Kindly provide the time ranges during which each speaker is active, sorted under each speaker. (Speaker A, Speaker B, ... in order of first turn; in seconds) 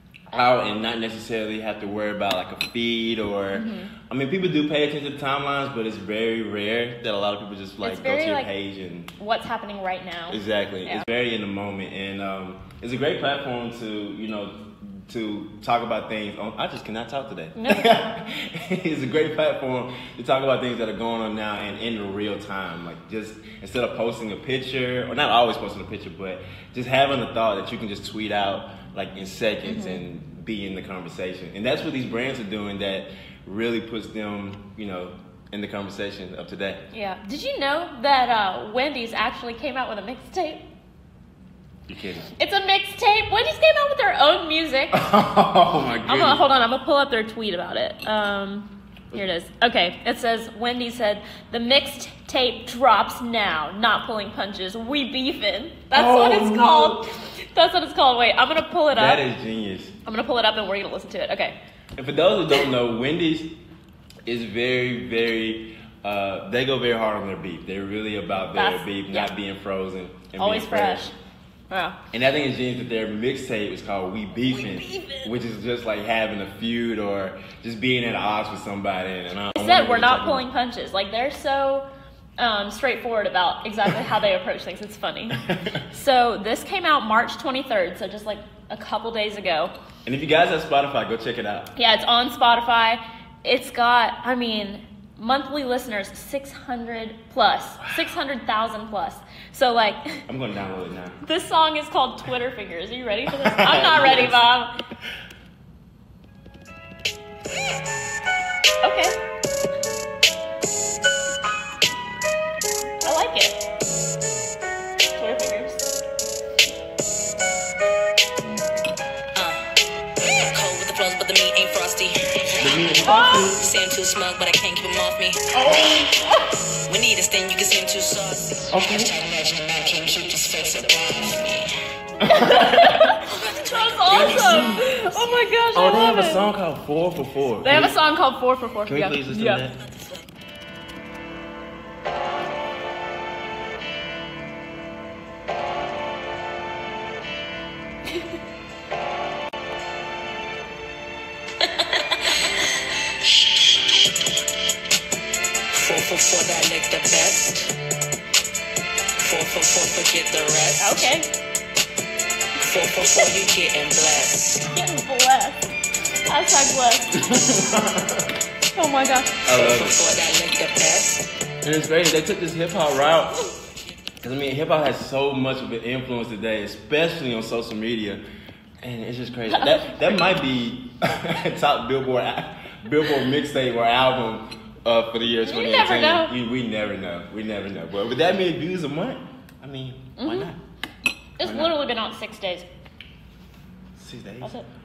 Speaker A: 0.3-9.1, 10.3-36.9, 41.9-42.3, 44.9-46.4, 55.9-57.1, 58.9-59.9, 62.0-63.6, 64.2-71.1, 72.1-80.5, 85.3-85.8, 90.0-91.7, 100.3-101.2, 103.3-104.4, 122.6-123.6, 125.5-126.1, 128.7-129.1, 132.2-133.1, 134.1-134.9, 135.7-138.0, 138.9-139.8, 167.1-168.3, 169.4-170.0, 171.6-173.4, 174.2-178.2, 178.8-190.6, 191.4-191.8, 194.0-194.5
Speaker B: 3.5-3.9, 7.8-8.5, 9.2-11.1, 17.6-18.0, 29.7-30.0, 36.9-40.6, 42.4-45.1, 46.1-59.2, 60.1-61.6, 68.5-69.3, 70.4-71.1, 71.7-72.0, 74.5-75.3, 79.5-81.9, 82.4-89.7, 91.8-100.2, 101.2-104.7, 108.8-109.2, 113.0-113.6, 115.2-115.8, 123.0-123.5, 132.3-136.4, 137.6-139.6, 160.8-161.3, 164.7-165.7, 166.3-167.4, 168.8-169.4, 179.5-180.0, 185.4-186.3, 190.2-190.5, 191.4-192.7, 194.4-194.7
Speaker C: 119.3-119.7, 120.2-122.9, 123.5-126.0, 126.9-131.7, 133.3-134.7, 153.5-153.8, 155.7-157.7, 159.2-160.9, 162.6-164.7, 169.5-171.3